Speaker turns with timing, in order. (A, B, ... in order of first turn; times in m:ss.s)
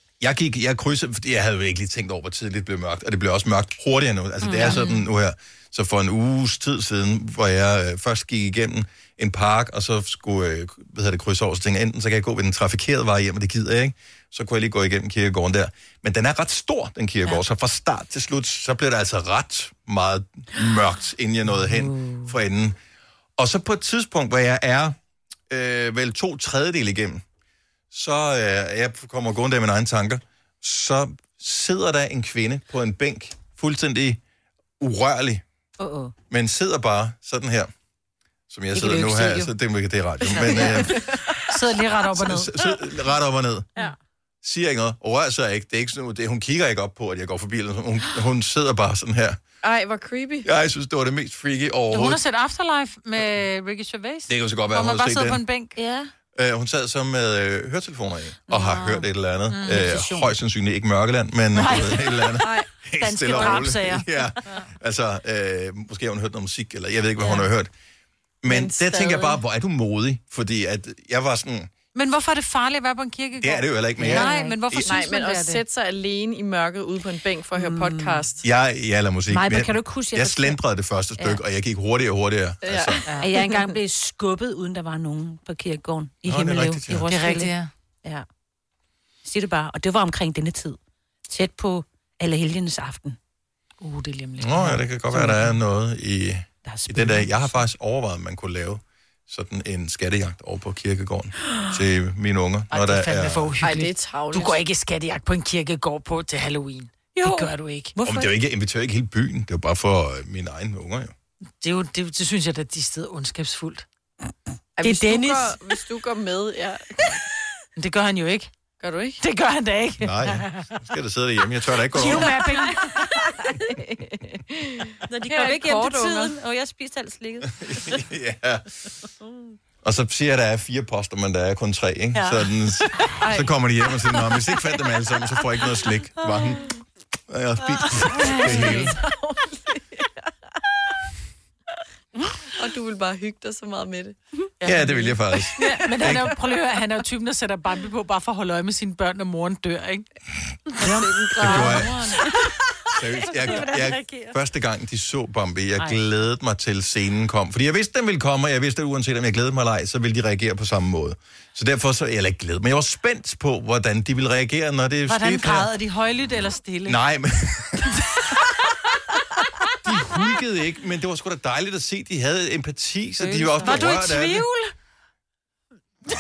0:00.2-0:22.8 A
0:04.4-0:05.0 B
0:23.4-0:25.0 A
0:25.5-0:27.2 A
0:27.9-0:34.2 A
0:34.8-0:35.4 A
0:35.8-0:36.1 B
0:36.3-0:37.7 A
0:38.5-0:41.2 A
0:38.7-0:39.5 B
0:40.5-0:41.2 C
0:41.3-0:42.7 D
0:42.1-0:43.7 A
0:44.4-0:49.4 A
0:49.6-0:50.5 C
0:50.4-0:52.2 A
0:51.9-0:55.8 D
0:54.3-0:55.4 A
0:55.8-0:56.1 B
0:56.3-1:07.7 A
0:58.5-0:59.0 B
0:59.5-1:00.0 D
0:59.6-1:00.3 B
1:01.5-1:02.3 D
1:02.4-1:02.7 C
1:03.0-1:04.1 D
1:08.4-1:11.7 A
1:08.4-1:09.4 C
1:11.9-1:15.6 D
1:13.4-1:14.9 A
1:14.1-1:14.6 B
1:14.8-1:18.4 C
1:17.5-1:18.2 B
1:18.4-1:23.1 A
1:19.3-1:20.6 B
1:22.6-1:23.1 C
1:23.2-1:27.5 B
1:26.2-1:27.0 A
1:27.1-1:27.7 D
1:29.2-1:33.2 B
1:33.8-1:35.6 D
1:34.4-1:43.5 A
1:36.7-1:37.3 B
1:42.7-1:47.9 D
1:43.6-1:44.6 C
1:47.2-1:48.3 B
1:48.0-1:51.1 A
1:51.6-1:53.8 D
1:54.8-1:57.2 C
1:54.8-1:55.5 B
1:54.9-1:55.4 D
1:57.8-1:58.5 D
1:58.8-1:59.2 C
1:59.2-2:00.7 D
2:00.0-2:02.3 A
2:01.9-2:03.0 D
2:03.4-2:06.3 C
2:05.0-2:08.0 B
2:07.6-2:08.7 A
2:09.8-2:16.7 A
2:13.2-2:13.5 C
2:17.3-2:19.0 A
2:18.2-2:18.9 D
2:18.3-2:20.3 C
2:22.5-2:25.7 C
2:24.6-2:26.3 A
2:25.6-2:30.0 D
2:30.8-2:32.3 D
2:30.8-2:31.7 C
2:30.9-2:32.3 B
2:31.4-2:32.1 A
2:32.9-2:45.7 A
2:33.2-2:34.4 B
2:45.0-2:47.0 D
2:46.8-2:48.1 A
2:49.8-2:54.5 A
2:53.2-2:54.5 B
2:53.6-2:54.5 D